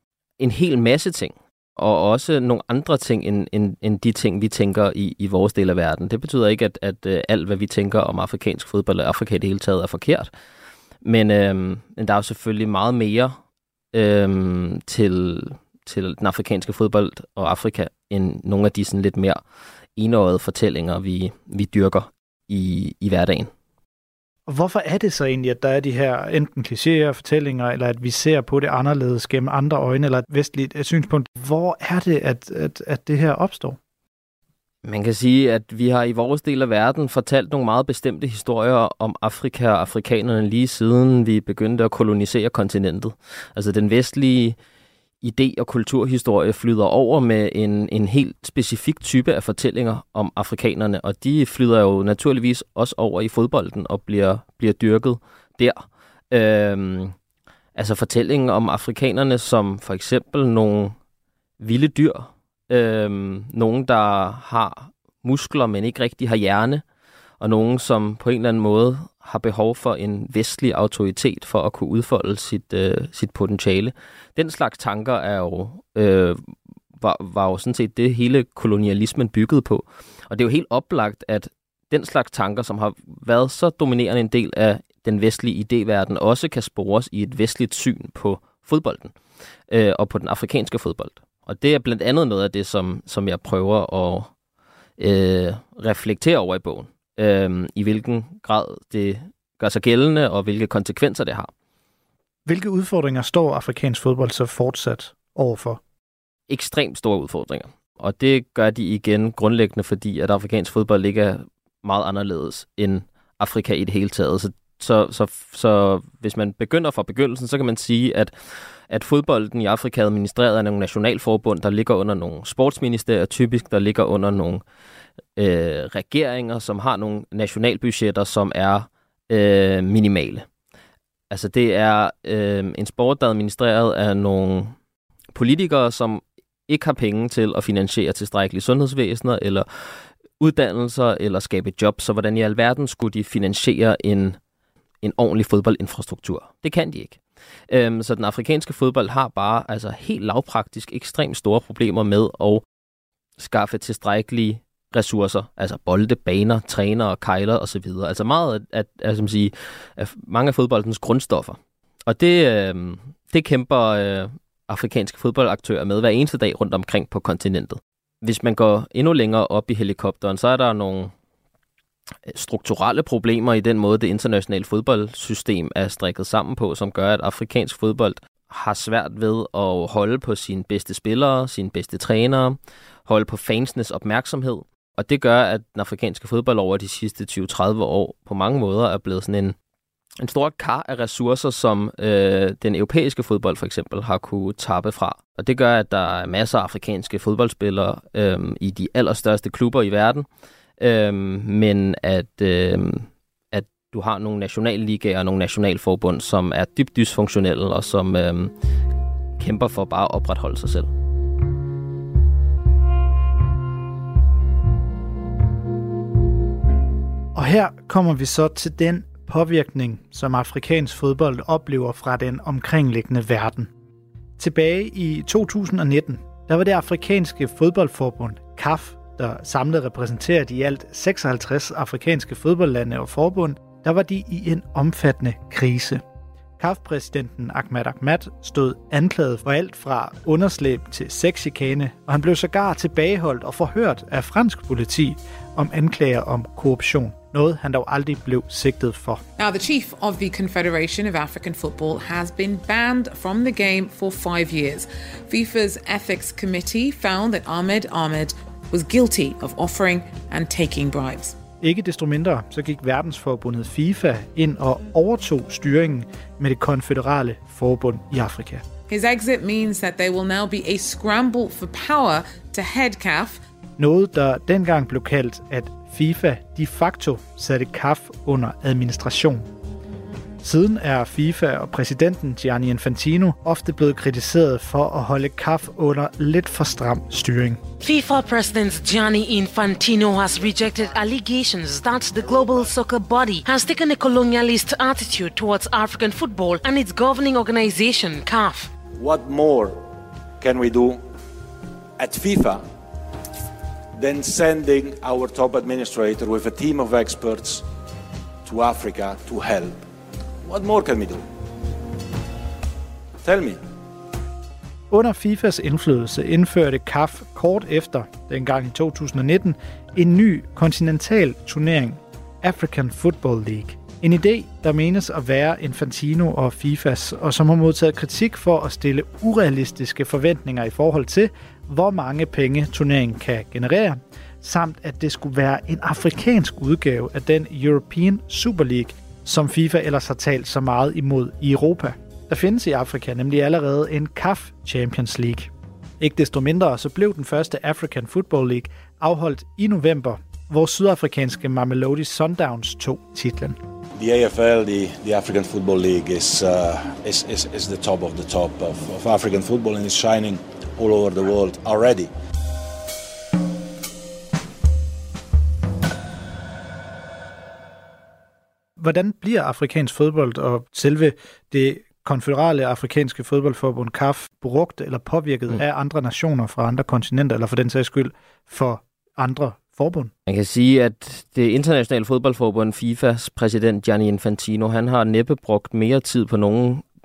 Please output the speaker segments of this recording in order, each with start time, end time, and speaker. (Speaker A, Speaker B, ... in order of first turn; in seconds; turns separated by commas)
Speaker A: 0.4-10.3, Speaker A: 11.0-13.3, Speaker A: 13.9-19.4, Speaker A: 19.9-23.5, Speaker B: 24.5-33.8, Speaker A: 34.8-44.6, Speaker A: 45.2-57.1, Speaker A: 57.7-61.0, Speaker A: 61.6-66.8, Speaker A: 67.4-89.1, Speaker A: 89.7-94.3, Speaker A: 95.0-101.5, Speaker B: 102.5-105.8, Speaker A: 106.5-118.3, Speaker A: 118.9-124.6, Speaker A: 125.4-130.4, Speaker A: 131.3-134.8, Speaker A: 135.3-139.7, Speaker A: 140.4-144.4, Speaker A: 145.0-147.2, Speaker A: 147.7-152.6, Speaker A: 153.4-171.1, Speaker A: 172.3-189.5, Speaker A: 190.2-200.2, Speaker A: 200.8-208.5, Speaker A: 209.4-210.9, Speaker B: 217.3-223.7, Speaker B: 224.4-236.0, Speaker B: 236.6-249.2, Speaker C: 249.4-261.4, Speaker B: 261.6-268.6, Speaker C: 268.9-273.4, Speaker B: 273.8-279.5, Speaker B: 280.4-287.6, Speaker D: 287.8-298.7, Speaker E: 299.0-299.8, Speaker E: 300.4-301.0, Speaker E: 302.0-302.6, Speaker E: 303.9-307.6, Speaker E: 308.4-309.8, Speaker E: 310.4-311.2, Speaker E: 313.2-313.6, Speaker B: 314.9-353.6, Speaker E: 354.0-362.1, Speaker B: 368.8-380.1, Speaker A: 380.3-386.8